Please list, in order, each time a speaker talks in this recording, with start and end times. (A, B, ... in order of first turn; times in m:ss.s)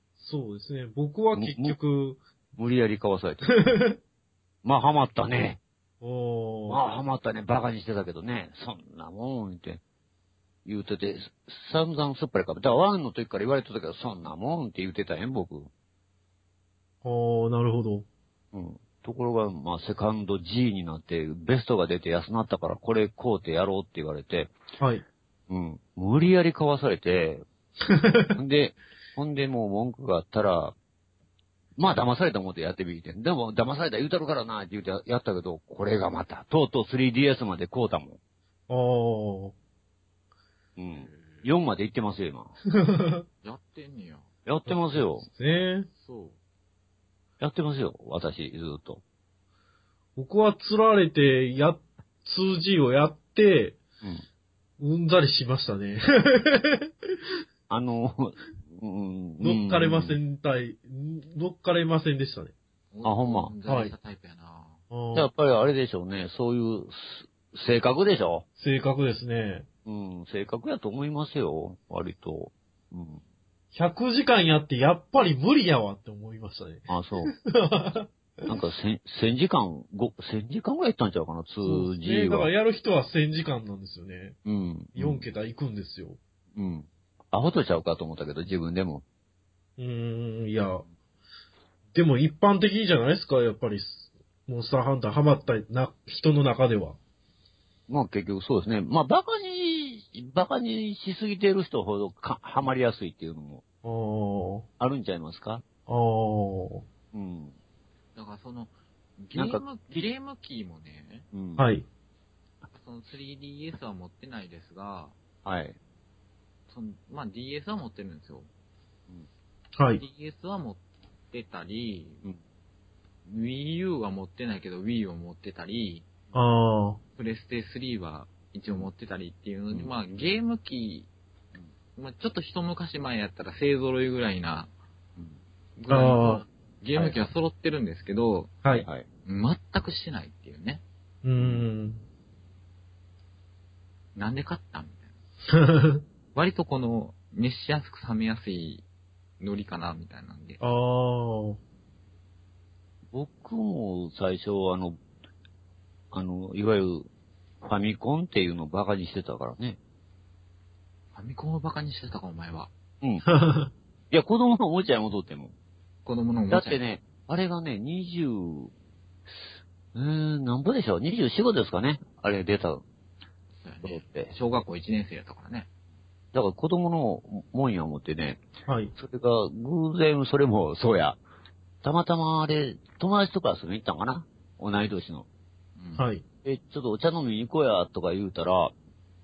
0:00.2-0:02.2 A
0:01.4-0:01.8 B
0:02.6-0:03.6 B
0:03.5-0:04.0 A
0:04.6-0:05.6 B
0:06.0-0:06.8 A
0:06.7-0:09.8 B
0:10.6-0:15.7 B
0:17.0-0:18.1 A
0:18.5-0:24.6 B
0:24.8-0:25.0 A
0:25.5-0:27.4 B
0:27.9-0:28.4 A
0:28.3-0:30.8 B
0:31.8-0:38.2 B
0:38.7-0:39.6 A
0:40.8-0:42.6 B
0:41.0-0:41.5 C
0:42.7-0:43.3 A
0:43.4-0:44.3 C
0:44.5-0:45.3 B
0:44.7-0:45.9 A
0:46.0-0:46.4 C
0:47.4-0:49.0 B
0:50.2-0:53.8 A
0:54.8-0:57.1 A
0:57.7-1:00.2 B
0:59.4-1:02.5 A
1:02.9-1:04.8 C
1:03.0-1:03.6 B
1:03.7-1:03.9 A
1:04.9-1:05.3 A
1:05.1-1:08.4 B
1:08.6-1:09.7 A
1:09.8-1:13.2 B
1:13.7-1:18.6 A
1:16.9-1:17.3 B
1:18.5-1:22.5 B
1:21.6-1:24.4 A
1:24.4-1:25.3 B
1:25.0-1:26.2 A
1:26.6-1:29.0 B
1:29.8-1:30.8 A
1:31.9-1:37.0 A
1:37.9-1:43.6 B
1:43.8-1:44.7 A
1:44.8-1:45.6 B
1:45.9-1:46.8 A
1:47.1-1:47.6 B
1:48.2-1:51.3 C
1:49.4-1:50.0 B
1:51.3-1:51.7 B
1:51.6-1:51.9 A
1:52.7-1:55.2 C
1:55.4-1:55.8 B
1:56.7-1:58.5 C
1:59.8-2:00.0 A
2:00.0-2:02.2 C
2:03.3-2:06.1 C
2:06.3-2:07.0 A
2:07.2-2:11.1 C
2:12.0-2:14.7 C
2:15.8-2:18.5 C
2:15.9-2:16.4 A
2:17.0-2:17.2 B
2:18.7-2:19.1 B
2:19.3-2:20.8 C
2:21.2-2:22.0 A
2:21.4-2:21.6 B
2:24.2-2:25.1 C
2:25.5-2:26.0 A
2:26.3-2:28.8 C
2:29.4-2:30.6 C
2:30.6-2:31.6 A
2:33.1-2:35.0 B
2:36.1-2:37.1 B
2:37.6-2:39.8 B
2:41.2-2:42.7 C
2:43.0-2:43.3 B
2:43.2-2:43.7 A
2:44.1-2:45.5 B
2:46.0-2:46.8 C
2:46.5-2:48.7 B
2:49.9-2:52.8 B
2:53.6-2:55.7 C
2:53.8-2:54.3 B
2:56.3-2:58.4 B
2:58.7-2:58.9 A
2:59.0-3:01.2 B
3:01.8-3:05.3 B
3:05.8-3:06.1 C
3:06.0-3:06.2 A
3:06.4-3:08.8 B